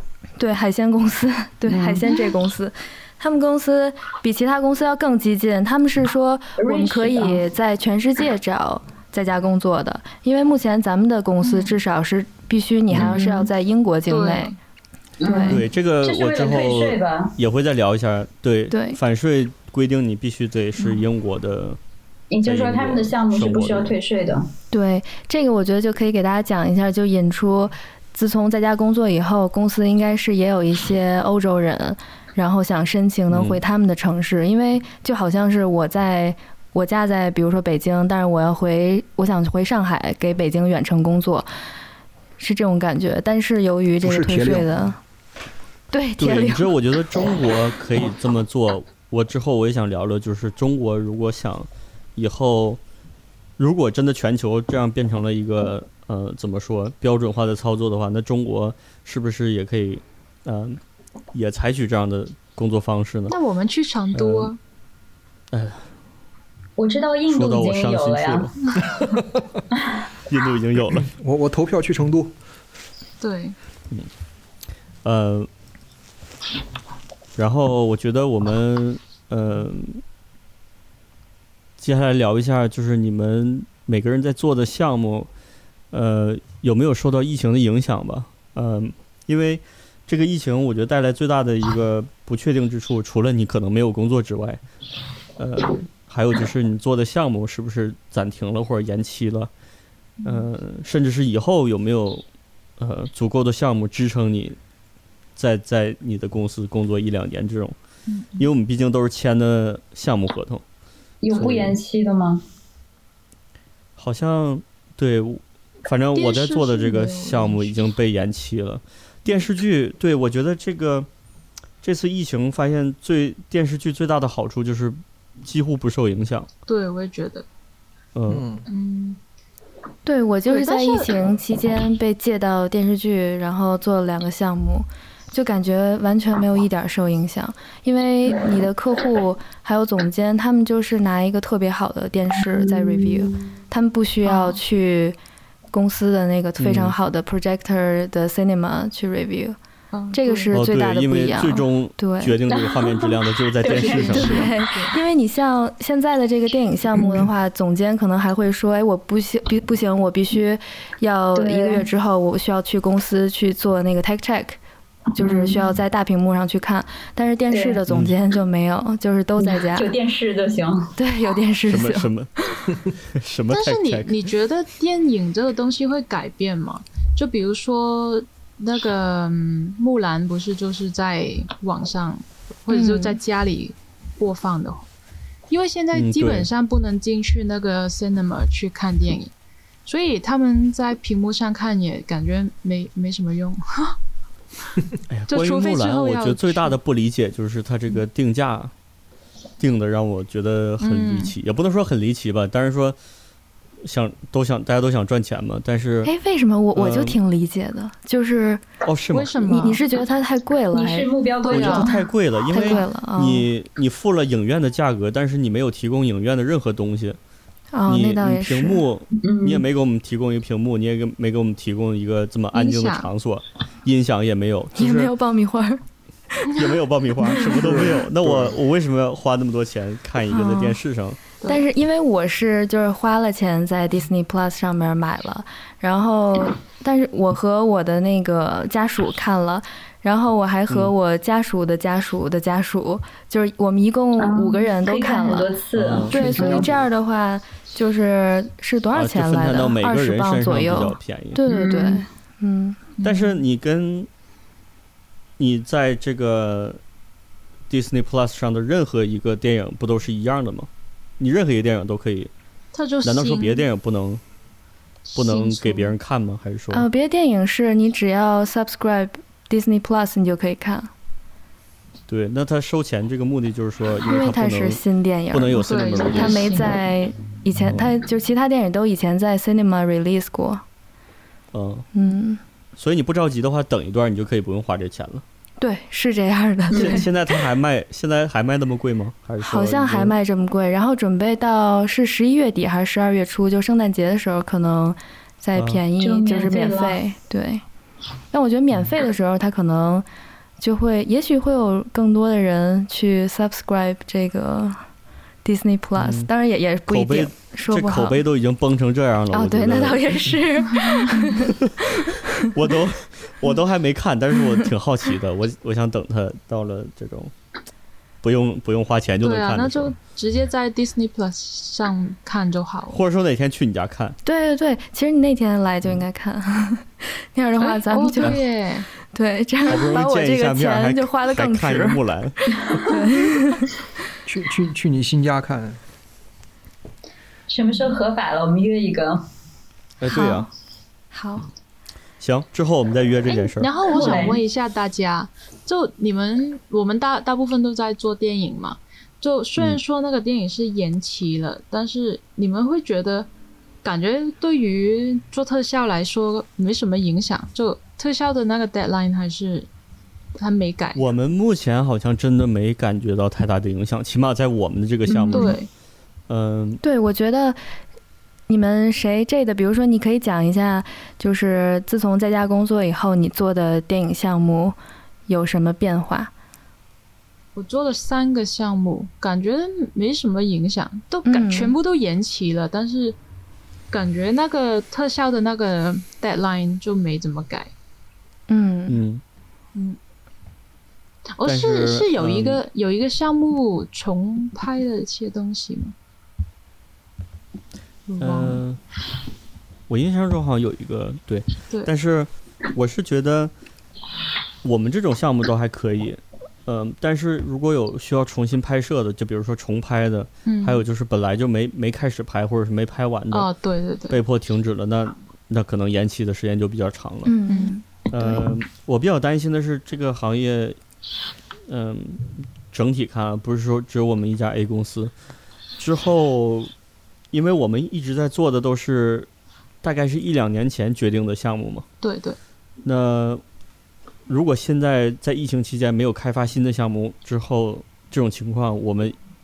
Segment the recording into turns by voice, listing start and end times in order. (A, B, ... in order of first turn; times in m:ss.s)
0:00.4-0:14.5 A
0:01.7-0:02.1 B
0:06.6-0:07.4 B
0:11.4-0:11.7 C
0:12.9-0:13.5 C
0:14.1-0:14.6 C
0:15.2-0:17.4 B
0:15.2-0:15.6 A
0:15.4-0:21.8 D
0:18.7-0:19.0 A
0:20.8-0:21.0 C
0:22.3-0:24.5 B
0:22.4-0:24.0 D
0:24.7-0:41.5 A
0:33.3-0:33.6 D
0:42.4-0:45.0 A
0:44.0-0:44.9 E
0:45.9-0:46.7 A
0:46.2-0:52.8 D
0:53.6-1:00.8 D
1:01.3-1:03.4 D
1:03.3-1:04.6 C
1:04.1-1:04.5 D
1:05.5-1:05.8 D
1:06.8-1:08.5 B
1:07.3-1:08.5 D
1:10.3-1:11.1 D
1:11.0-1:12.3 E
1:13.2-1:13.6 C
1:15.0-1:15.5 D
1:17.4-1:20.0 D
1:21.8-1:25.3 D
1:25.9-1:34.6 D
1:35.4-1:39.5 D
1:40.2-1:40.5 C
1:40.2-1:42.2 D
1:42.8-1:44.6 D
1:45.4-1:47.8 D
1:48.1-1:48.5 C
1:48.4-1:50.6 D
1:51.2-1:52.4 B
1:51.3-1:51.8 D
1:54.0-2:01.1 D
1:56.2-1:57.8 C
2:01.8-2:06.5 D
2:06.7-2:07.4 C
2:08.1-2:08.4 D
2:08.3-2:08.6 E
2:08.7-2:09.2 C
2:10.0-2:25.2 A
2:10.5-2:11.1 C
2:24.2-2:24.6 C
2:25.7-2:29.6 A
2:26.6-2:26.9 D
2:29.9-2:30.5 C
2:30.1-2:32.4 A
2:30.5-2:34.5 D
2:32.5-2:34.4 B
2:33.8-2:35.0 C
2:34.1-2:44.6 A
2:41.3-2:41.8 B
2:45.1-2:49.9 A
2:45.2-2:45.6 B
2:47.5-2:47.8 B
2:47.9-2:48.1 D
2:49.4-2:50.9 B
2:51.0-2:52.1 A
2:51.7-2:52.3 D
2:53.1-2:54.2 D
2:53.5-3:04.8 C
3:02.7-3:03.2 A
3:05.5-3:09.3 C
3:05.9-3:06.5 D
3:09.8-3:14.0 C
3:15.1-3:18.7 D
3:15.3-3:16.8 C
3:19.6-3:23.0 D
3:20.8-3:21.3 C
3:23.8-3:26.1 D
3:26.0-3:28.6 A
3:26.8-3:27.2 D
3:28.8-3:29.4 D
3:29.1-3:29.8 C
3:29.5-3:31.9 A
3:30.7-3:31.9 B
3:31.4-3:31.9 C
3:31.5-3:37.2 D
3:32.5-3:33.5 A
3:37.7-3:38.8 A
3:37.8-3:45.1 D
3:39.2-3:39.6 B
3:42.5-3:43.1 C
3:44.8-3:45.8 A
3:46.5-3:51.2 D
3:47.6-3:48.6 E
3:50.3-3:50.8 A
3:51.4-4:05.5 A
4:04.2-4:06.7 B
4:05.8-4:06.6 D
4:06.1-4:12.8 A
4:06.2-4:06.8 E
4:08.9-4:11.4 D
4:11.4-4:12.0 B
4:13.0-4:13.4 C
4:13.0-4:14.1 D
4:15.4-4:16.8 D
4:17.7-4:22.3 D
4:22.7-4:23.7 C
4:23.0-4:24.2 D
4:25.0-4:25.9 C
4:25.1-4:26.9 D
4:26.7-4:30.9 A
4:32.1-4:34.8 D
4:34.0-4:40.6 A
4:35.3-4:36.5 D
4:35.6-4:36.8 C
4:37.6-4:37.9 D
4:41.5-4:41.8 D
4:41.9-4:42.4 A
4:42.8-4:45.2 D
4:45.6-4:47.1 A
4:46.7-4:50.2 D
4:46.7-4:47.1 B
4:49.4-4:57.6 A
4:55.5-4:55.8 D
4:56.0-4:57.0 B
4:58.3-5:00.0 A
5:00.6-5:04.8 A
5:05.4-5:08.2 A
5:06.0-5:06.3 D
5:06.9-5:10.4 D
5:09.3-5:12.5 A
5:10.9-5:11.3 C
5:11.4-5:17.3 D
5:18.2-5:19.9 D
5:19.2-5:23.0 C
5:22.9-5:24.2 D
5:24.2-5:28.4 A
5:27.6-5:28.9 C
5:29.1-5:33.7 A
5:29.6-5:32.3 D
5:34.2-5:35.8 E
5:37.5-5:39.2 B
5:40.0-5:40.5 D
5:40.1-5:40.5 A
5:41.1-5:41.5 A
5:42.2-5:43.9 D
5:43.3-5:53.3 C
5:43.8-5:44.4 B
5:53.8-5:59.7 C
6:00.4-6:01.0 C
6:00.9-6:05.6 D
6:05.3-6:05.7 C
6:06.3-6:06.8 D
6:06.8-6:07.6 A
6:08.5-6:14.8 A
6:15.3-6:16.3 A
6:17.5-6:23.2 C
6:21.2-6:21.7 A
6:23.9-6:27.7 C
6:28.5-6:29.0 A
6:28.9-6:29.2 D
6:31.4-6:35.9 C
6:31.4-6:32.6 D
6:38.1-6:38.6 C
6:38.2-6:38.8 D
6:39.9-6:43.5 D
6:44.6-6:53.5 D
6:50.4-6:50.8 C
6:53.3-6:54.2 C
6:54.1-6:57.3 D
6:57.2-6:58.4 A
6:57.5-6:57.8 C
6:58.1-7:00.8 D
7:01.7-7:05.1 D
7:05.8-7:06.7 D
7:07.3-7:09.3 D
7:09.8-7:11.8 D
7:12.0-7:12.4 C
7:12.8-7:13.4 D
7:14.3-7:19.2 D